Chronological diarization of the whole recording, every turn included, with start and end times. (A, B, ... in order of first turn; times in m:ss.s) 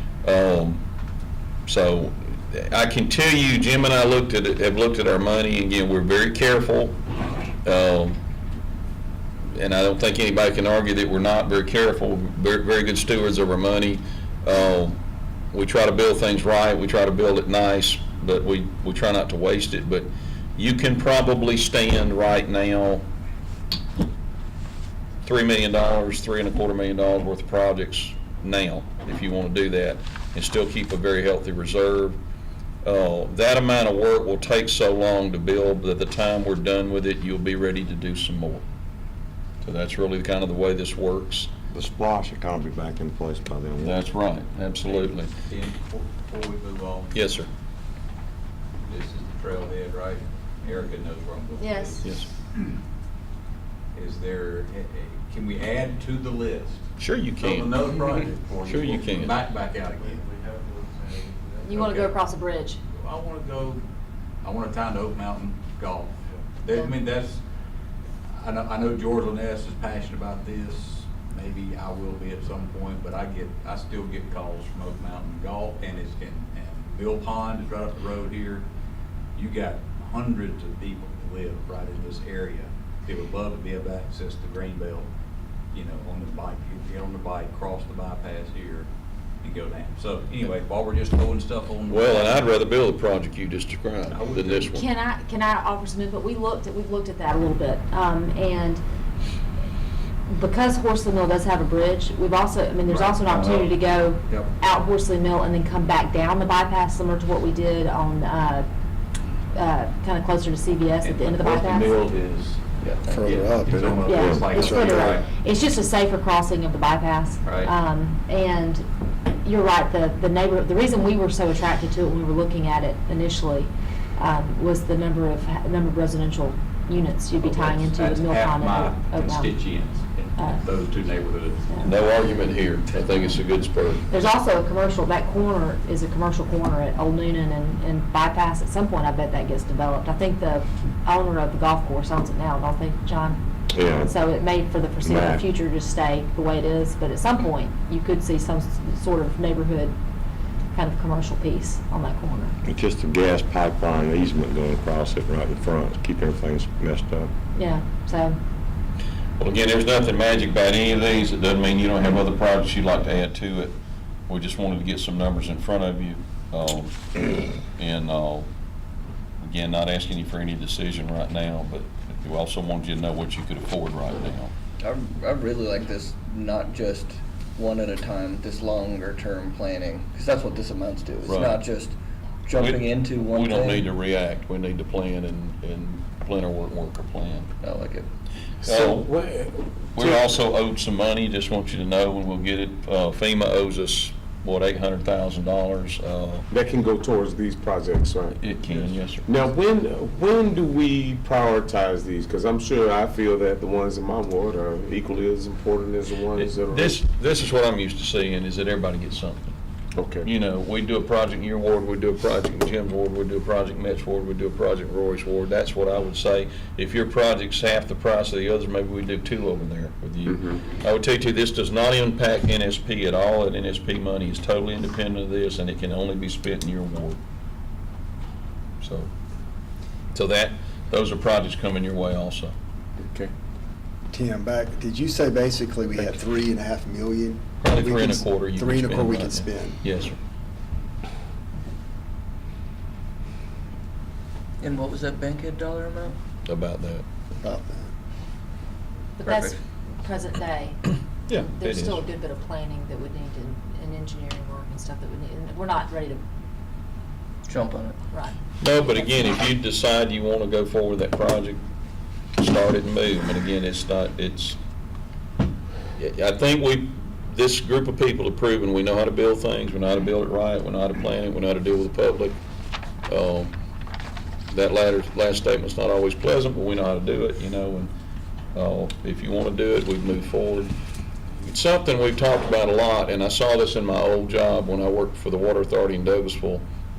0:00.2-0:00.8 A
0:01.6-0:07.0 A
0:07.6-0:08.2 A
0:09.5-0:15.0 A
0:15.5-0:23.1 A
0:25.2-0:32.2 A
0:32.8-0:38.6 A
0:39.6-0:41.5 A
0:41.7-0:44.0 B
0:43.8-0:45.3 A
0:44.8-0:47.1 C
0:47.1-0:47.5 A
0:48.8-0:52.7 C
0:51.6-0:52.1 D
0:53.9-1:02.1 C
0:57.0-0:57.8 A
0:58.6-0:59.3 A
1:01.6-1:02.8 D
1:03.0-1:03.8 C
1:04.4-1:07.4 C
1:08.3-1:18.6 C
1:19.3-1:25.1 C
1:25.7-1:28.9 C
1:29.4-1:32.4 C
1:31.9-1:34.8 A
1:34.1-1:34.8 C
1:34.7-1:38.8 D
1:40.3-1:48.7 D
1:42.9-1:43.7 C
1:49.5-1:51.9 D
1:51.0-1:52.6 C
1:52.8-1:53.4 E
1:53.0-1:54.0 F
1:53.2-1:55.2 C
1:53.9-1:54.6 B
1:54.0-1:58.8 D
1:54.6-1:55.0 F
1:57.4-1:57.7 C
1:59.4-2:09.6 D
2:07.4-2:11.7 C
2:10.4-2:10.7 D
2:11.7-2:12.0 D
2:11.8-2:14.1 A
2:14.1-2:30.0 D
2:23.7-2:24.1 B
2:25.0-2:25.4 B
2:30.7-2:32.5 D
2:32.6-2:37.3 B
2:37.5-2:38.4 D
2:39.4-2:43.8 A
2:44.3-2:48.5 A
2:49.4-2:54.5 A
2:54.8-3:03.9 E
3:01.2-3:01.6 A
3:02.6-3:07.5 A
3:07.6-3:08.1 E
3:08.6-3:09.1 A
3:08.6-3:10.4 G
3:10.0-3:16.5 A
3:16.5-3:27.0 G
3:18.4-3:19.3 A
3:26.3-3:29.5 A
3:30.0-3:30.3 G
3:30.2-3:47.2 A
3:48.8-3:49.1 A
3:50.1-3:52.5 A
3:53.0-3:53.3 G
3:54.1-3:59.8 F
3:57.6-4:00.2 A
4:04.6-4:06.2 E
4:06.4-4:07.0 A
4:07.4-4:07.9 F
4:09.2-4:10.8 D
4:09.2-4:09.6 E
4:11.3-4:12.0 A
4:11.3-4:16.2 D
4:17.5-4:18.0 E
4:18.6-4:21.6 A
4:22.4-4:24.6 A
4:26.0-4:32.4 A
4:33.1-4:33.5 A
4:34.5-4:37.9 A
4:38.5-4:40.7 A
4:41.4-4:46.6 A